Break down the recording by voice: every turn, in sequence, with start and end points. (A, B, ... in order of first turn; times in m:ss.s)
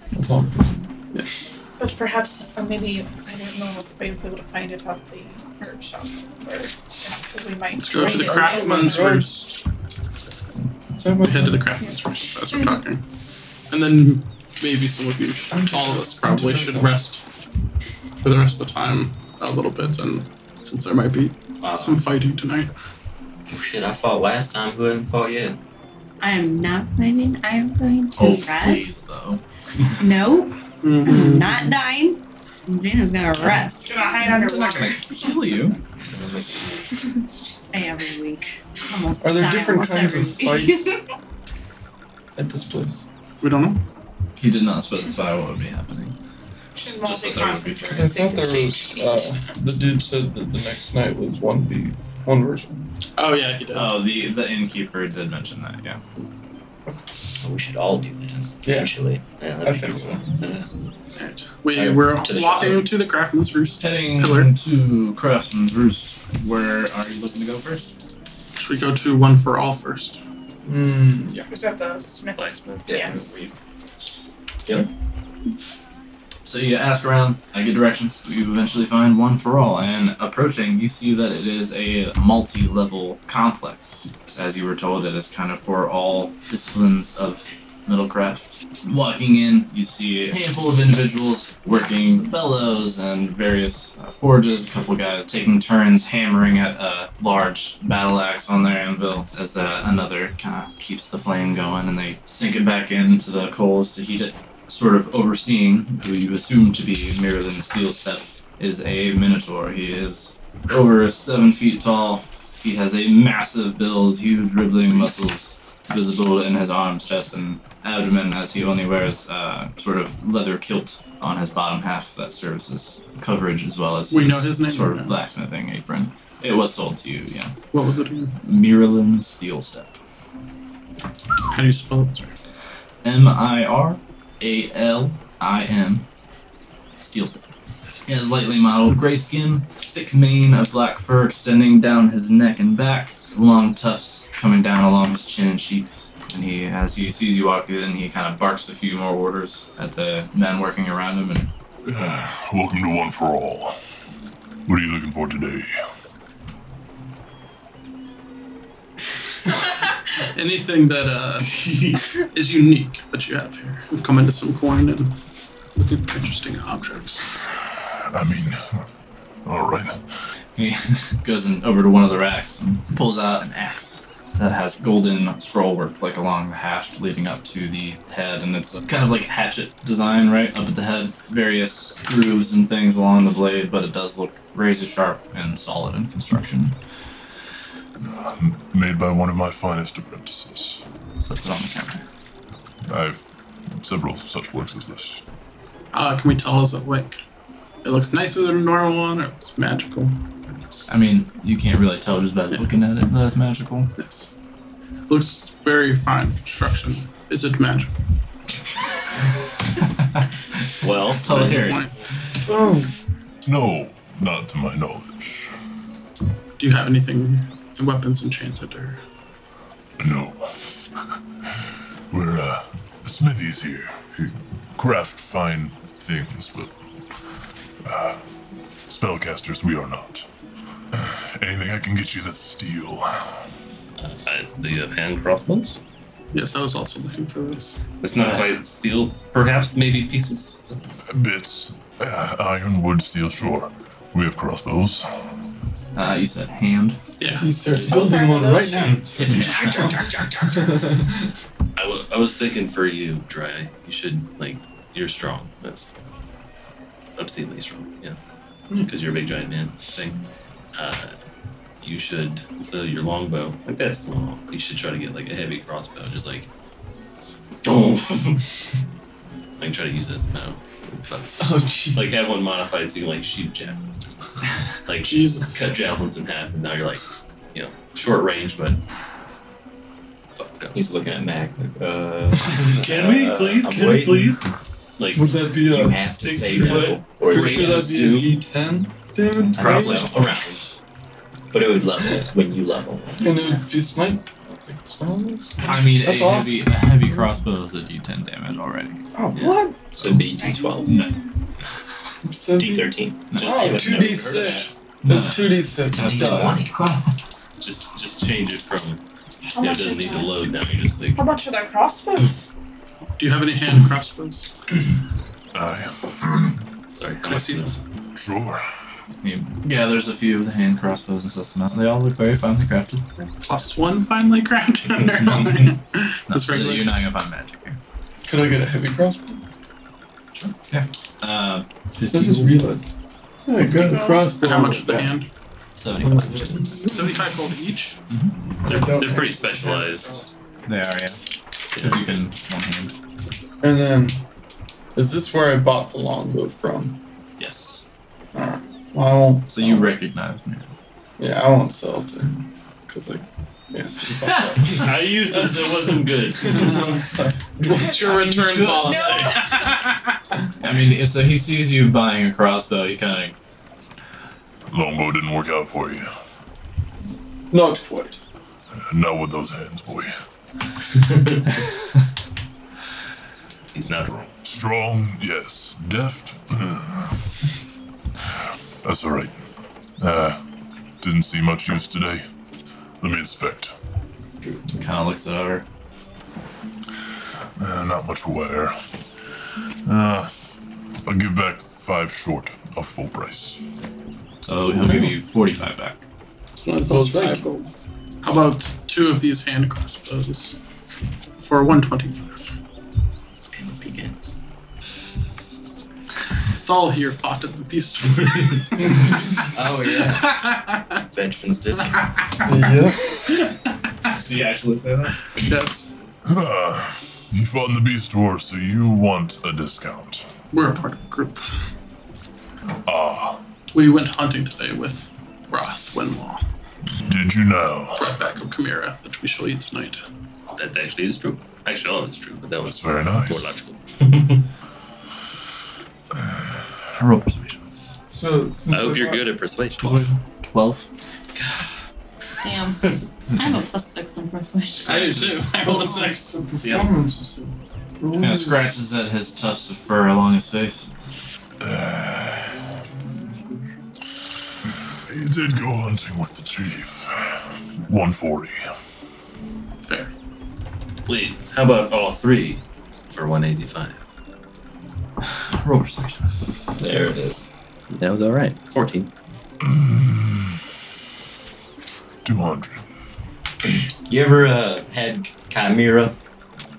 0:00.1-0:00.9 A
0:01.1-0:01.5 B
0:01.8-0:09.2 C
0:07.8-0:09.5 B
0:07.9-0:09.6 A
0:11.0-0:11.9 A
0:11.2-0:13.0 B
0:13.7-0:17.2 B
0:15.5-0:17.0 A
0:18.2-0:22.7 B
0:21.6-0:22.0 D
0:23.5-0:25.6 D
0:26.2-0:29.0 E
0:28.2-0:29.4 F
0:30.0-0:34.2 E
0:30.8-0:31.6 B
0:33.8-0:35.3 C
0:34.2-0:35.8 F
0:36.0-0:36.8 D
0:37.1-0:40.9 E
0:39.2-0:41.0 A
0:42.4-0:43.0 A
0:43.4-0:43.8 B
0:44.4-0:46.2 F
0:46.8-0:49.4 C
0:46.8-0:48.2 F
0:47.9-0:52.9 A
0:53.2-0:54.0 B
0:53.7-0:56.0 F
0:57.4-1:00.6 D
0:58.6-0:58.9 A
0:59.6-1:00.3 A
1:01.2-1:04.5 B
1:01.7-1:02.9 D
1:03.8-1:07.9 F
1:08.6-1:10.2 B
1:10.7-1:11.5 A
1:11.5-1:13.4 C
1:12.4-1:13.3 G
1:12.9-1:13.5 D
1:16.4-2:07.5 F
2:04.1-2:05.2 B
2:07.7-2:08.4 B
2:08.4-2:10.0 F
2:11.5-2:12.3 B
2:13.0-2:16.0 F
2:17.0-2:17.5 F
2:18.1-2:31.5 F
2:31.8-2:33.8 H
2:34.7-2:35.7 H
2:40.3-2:45.2 B
2:45.8-2:47.3 B
2:47.5-2:48.9 H
2:49.4-2:50.0 H
2:50.6-3:06.8 F
3:08.0-3:10.8 H
3:11.2-3:12.0 F
3:12.9-3:15.2 H
3:15.9-3:17.2 B
3:17.8-3:20.2 B
3:20.9-3:23.9 F
3:24.0-3:24.3 B
3:25.1-3:28.0 B
3:30.8-3:31.8 G
3:31.2-3:31.9 F
3:31.4-3:32.0 B
3:32.5-3:32.9 A
3:33.4-3:35.5 H
3:36.6-3:39.0 B
3:40.0-3:46.7 H
3:47.8-3:48.2 H
3:48.9-3:50.3 H
3:50.9-3:53.5 H
3:54.0-3:55.8 G
3:56.3-3:57.8 B
3:58.0-4:00.8 G
3:58.2-3:58.5 F
4:01.1-4:05.3 H
4:06.0-4:07.0 F
4:07.2-4:07.6 B
4:07.3-4:11.2 A
4:07.7-4:08.0 G
4:07.8-4:10.4 C
4:08.9-4:09.6 G
4:09.2-4:09.9 F
4:11.8-4:15.9 G
4:17.2-4:18.2 G
4:18.8-4:20.2 G
4:20.7-4:21.2 G
4:21.8-4:26.5 G
4:27.6-4:28.4 G
4:29.6-4:33.8 G
4:31.4-4:32.1 A
4:34.8-4:38.8 G
4:35.0-4:35.7 B
4:40.4-4:40.8 G
4:40.7-4:44.4 D
4:42.4-4:44.5 G
4:45.0-4:45.3 G
4:45.1-4:50.3 A
4:45.6-4:47.9 D
4:46.5-4:48.4 G
4:49.4-4:50.6 F
4:49.6-4:50.6 D
4:51.5-4:53.6 D
4:53.2-4:57.3 A
4:55.6-4:59.1 F
4:59.1-4:59.9 A
5:00.0-5:01.1 D
5:00.0-5:00.2 F
5:00.4-5:01.1 C
5:00.8-5:01.2 F
5:02.2-5:06.6 A
5:02.6-5:04.4 D
5:03.3-5:07.0 F
5:03.4-5:04.7 G
5:05.9-5:06.8 D
5:07.6-5:09.0 G
5:09.4-5:10.4 C
5:09.6-5:11.2 G
5:11.1-5:12.5 C
5:13.2-5:14.5 B
5:15.5-5:16.6 H
5:17.0-5:17.8 G
5:17.2-5:17.7 B
5:18.1-5:18.6 H
5:19.2-5:23.1 F
5:23.4-5:26.9 B
5:26.3-5:27.8 F
5:28.3-5:29.4 A
5:30.4-5:32.6 F
5:32.1-5:32.8 A
5:33.5-5:35.2 A
5:33.7-5:34.3 C
5:34.4-5:35.3 B
5:35.8-5:36.8 F
5:36.0-5:37.2 A
5:36.8-5:38.0 B
5:38.6-5:40.3 A
5:38.6-5:40.2 G
5:40.7-5:41.2 F
5:41.8-5:42.9 F
5:43.6-5:44.2 A
5:45.0-5:47.0 A
5:47.4-5:47.8 F
5:48.4-5:49.9 A
5:49.5-5:50.7 F
5:51.2-5:55.9 A
5:54.2-5:54.6 F
5:54.7-5:57.0 G
5:56.4-5:56.8 A
5:57.6-6:00.0 B
5:58.0-5:59.1 F
5:58.7-5:59.7 C
6:00.6-6:03.4 F
6:04.7-6:06.1 H
6:07.5-6:08.2 A
6:08.7-6:10.1 H
6:13.7-6:14.3 G
6:14.4-6:17.3 H
6:18.4-6:19.3 H
6:20.0-6:20.4 H
6:21.0-6:22.2 H
6:23.0-6:23.8 H
6:24.8-6:25.7 F
6:27.6-6:28.8 H
6:29.8-6:30.3 H
6:31.0-6:33.6 H
6:34.4-6:36.0 F
6:36.6-6:37.7 B
6:36.8-6:37.6 A
6:38.2-6:40.6 B
6:41.4-6:42.5 B
6:43.5-6:44.3 D
6:46.5-6:49.1 B
6:49.4-6:50.4 D
6:50.0-6:50.8 B
6:51.1-6:52.1 D
6:52.4-6:53.1 A
6:54.1-6:55.2 F
6:55.4-6:55.9 B
6:56.2-7:00.3 H
7:00.5-7:01.4 B
7:02.8-7:03.4 H
7:03.7-7:06.4 B
7:07.0-7:08.1 H
7:08.0-7:10.0 B
7:10.5-7:14.4 G
7:12.6-7:13.5 H
7:16.1-7:16.9 H
7:17.0-7:17.6 F
7:18.1-7:19.3 A
7:18.7-7:20.1 G
7:19.8-7:20.9 F
7:22.4-7:25.4 E
7:24.8-7:26.8 B
7:25.6-7:28.6 A
7:28.2-7:30.9 F
7:31.6-7:32.6 H
7:35.1-7:38.7 H
7:39.8-7:40.1 B
7:41.1-7:44.0 G
7:45.4-7:46.4 F
7:46.8-7:47.4 D
7:47.9-7:49.1 G
7:49.6-7:50.7 H
7:52.2-7:52.8 H
7:54.1-7:56.2 D